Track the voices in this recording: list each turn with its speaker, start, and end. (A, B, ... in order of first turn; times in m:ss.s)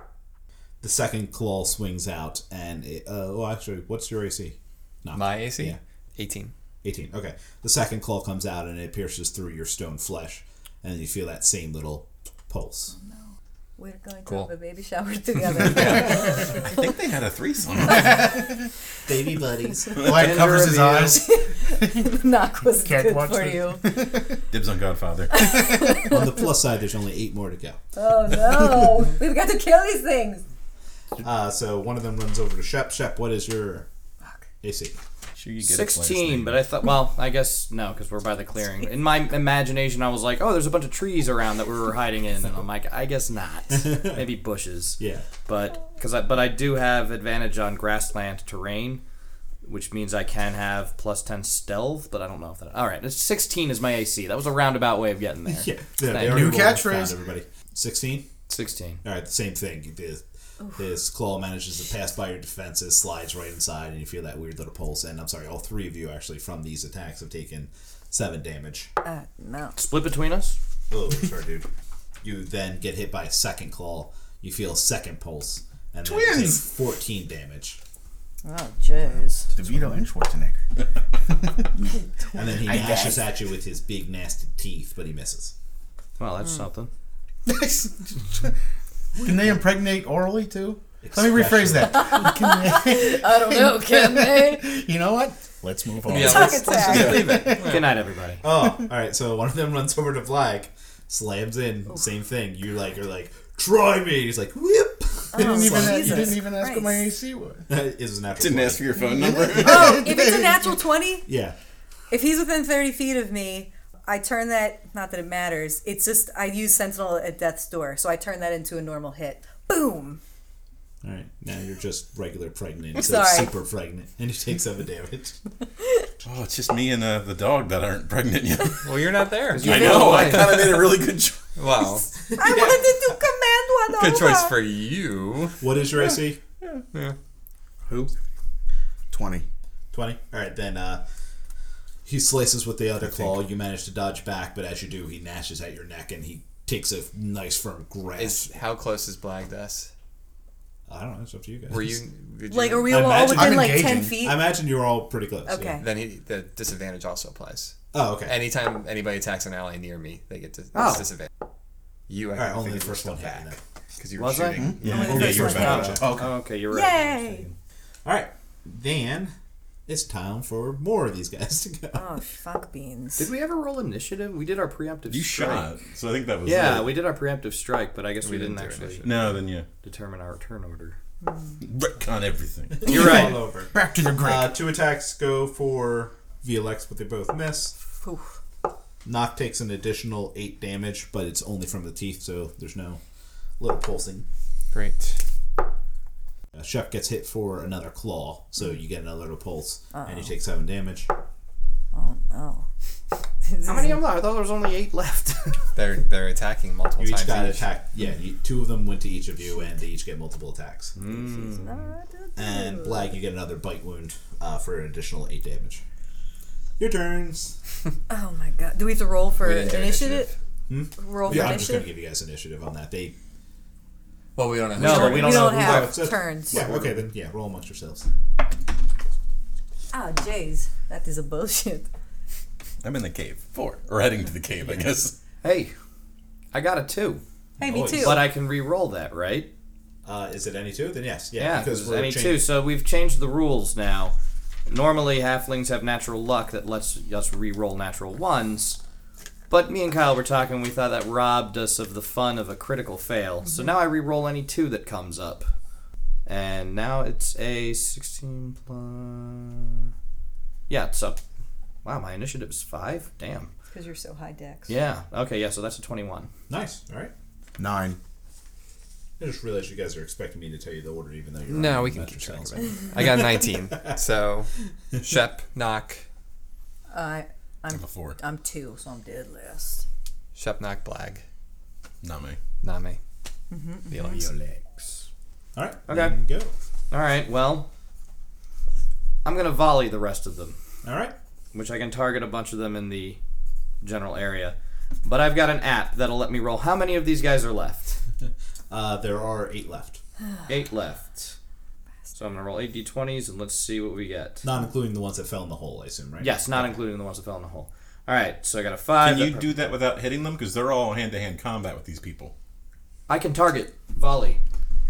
0:00.8-0:05.8 A
0:05.1-0:06.5 B
0:06.8-0:12.9 A
0:12.9-0:16.9 C
0:15.5-0:16.2 B
0:15.6-0:18.4 D
0:18.0-0:18.3 E
0:19.0-0:20.2 A
0:20.0-0:20.3 D
0:20.0-0:22.0 E
0:20.1-0:21.2 F
0:21.2-0:24.0 C
0:22.8-0:24.3 E
0:24.5-0:25.5 D
0:25.3-0:26.4 C
0:26.0-0:27.8 A
0:28.0-0:30.4 C
0:31.2-0:33.9 A
0:34.6-0:35.0 A
0:35.4-0:36.6 D
0:35.6-0:49.0 F
0:43.7-0:44.2 A
0:45.0-0:45.2 A
0:49.6-0:56.5 F
0:55.5-0:58.3 A
0:56.1-0:57.2 E
0:58.5-0:59.0 F
0:59.0-1:08.9 A
1:09.0-1:09.8 C
1:09.8-1:10.6 F
1:10.9-1:11.7 A
1:12.2-1:17.8 A
1:16.0-1:16.6 E
1:18.4-1:19.5 C
1:19.5-1:20.6 E
1:22.3-1:25.5 A
1:22.7-1:23.2 E
1:26.2-1:26.9 F
1:27.4-1:28.5 E
1:29.2-1:37.8 E
1:29.2-1:29.6 A
1:31.0-1:32.2 A
1:31.9-1:34.8 C
1:36.0-1:37.9 B
1:36.1-1:37.4 C
1:36.9-1:37.3 D
1:37.6-1:38.4 F
1:38.4-1:46.4 A
1:45.3-1:47.1 C
1:45.3-1:47.7 E
1:47.7-1:50.0 A
1:48.4-1:50.1 D
1:49.1-1:50.6 E
1:49.6-1:51.3 C
1:51.3-1:51.6 A
1:52.1-2:00.2 C
2:01.0-2:05.4 A
2:03.0-2:03.5 C
2:06.2-2:09.0 D
2:08.7-2:10.8 B
2:09.5-2:10.6 F
2:09.5-2:11.5 D
2:11.6-2:12.1 B
2:12.2-2:13.2 A
2:12.3-2:14.6 C
2:13.9-2:15.6 B
2:15.6-2:16.4 A
2:19.1-2:19.4 E
2:19.9-2:21.0 A
2:22.0-2:28.5 A
2:28.2-2:29.9 B
2:30.9-2:32.0 A
2:31.7-2:33.0 B
2:32.5-2:34.4 C
2:32.9-2:35.8 A
2:33.2-2:34.3 E
2:35.5-2:35.8 C
2:35.8-2:41.3 B
2:37.9-2:38.4 A
2:40.7-2:41.1 F
2:42.1-2:45.2 B
2:42.3-2:43.6 A
2:44.2-2:47.6 F
2:44.5-2:46.3 E
2:44.8-2:46.0 D
2:44.9-2:46.0 A
2:44.9-2:46.0 C
2:46.7-2:47.5 C
2:48.0-2:49.3 A
2:49.9-2:52.1 A
2:51.9-2:53.3 C
2:53.2-2:55.7 F
2:55.1-2:56.9 D
2:56.4-3:01.0 F
2:58.2-2:59.3 B
2:59.0-2:59.6 D
3:01.2-3:01.6 C
3:01.6-3:03.0 D
3:02.8-3:07.8 A
3:02.8-3:03.4 F
3:03.0-3:04.5 E
3:08.0-3:08.3 C
3:09.0-3:13.0 A
3:13.6-3:14.3 A
3:14.7-3:15.2 B
3:16.5-3:21.1 A
3:19.9-3:20.3 C
3:21.9-3:22.7 C
3:23.4-3:24.0 C
3:23.6-3:25.6 F
3:25.7-3:27.7 B
3:27.0-3:30.9 A
3:31.0-3:31.9 F
3:31.1-3:33.1 C
3:32.4-3:35.8 A
3:36.8-3:37.6 A
3:38.1-3:40.3 C
3:39.4-3:40.3 B
3:40.7-3:43.2 A
3:41.0-3:41.9 C
3:44.4-3:45.6 B
3:44.8-3:46.9 F
3:44.8-3:46.6 C
3:45.0-3:48.1 A
3:49.9-3:51.9 C
3:52.8-3:55.1 D
3:55.4-3:55.7 F
3:56.5-3:57.2 F
3:57.6-3:58.2 A
3:57.6-3:58.3 C
3:57.8-3:59.5 F
4:00.0-4:02.4 A
4:01.4-4:04.1 F
4:04.7-4:08.8 F
4:09.5-4:15.5 F
4:16.2-4:19.9 F
4:20.7-4:21.2 F
4:21.8-4:23.5 F
4:23.7-4:24.7 C
4:24.7-4:26.3 F
4:26.5-4:27.1 A
4:27.6-4:28.0 E
4:29.2-4:33.9 A
4:31.5-4:36.0 B
4:36.9-4:39.8 C
4:37.7-4:38.2 D
4:40.3-4:41.2 B
4:42.0-4:42.4 D
4:42.6-4:43.0 B
4:43.5-4:44.0 C
4:43.9-4:44.8 B
4:45.5-4:46.5 A
4:45.9-4:46.2 F
4:46.9-4:47.7 F
4:49.2-4:50.6 F
4:50.8-4:51.1 A
4:51.5-4:53.2 F
4:53.8-4:58.0 F
4:58.7-5:00.0 A
5:00.5-5:01.4 F
5:02.1-5:04.4 F
5:04.4-5:06.8 A
5:06.2-5:09.5 F
5:09.0-5:12.3 D
5:13.1-5:14.4 F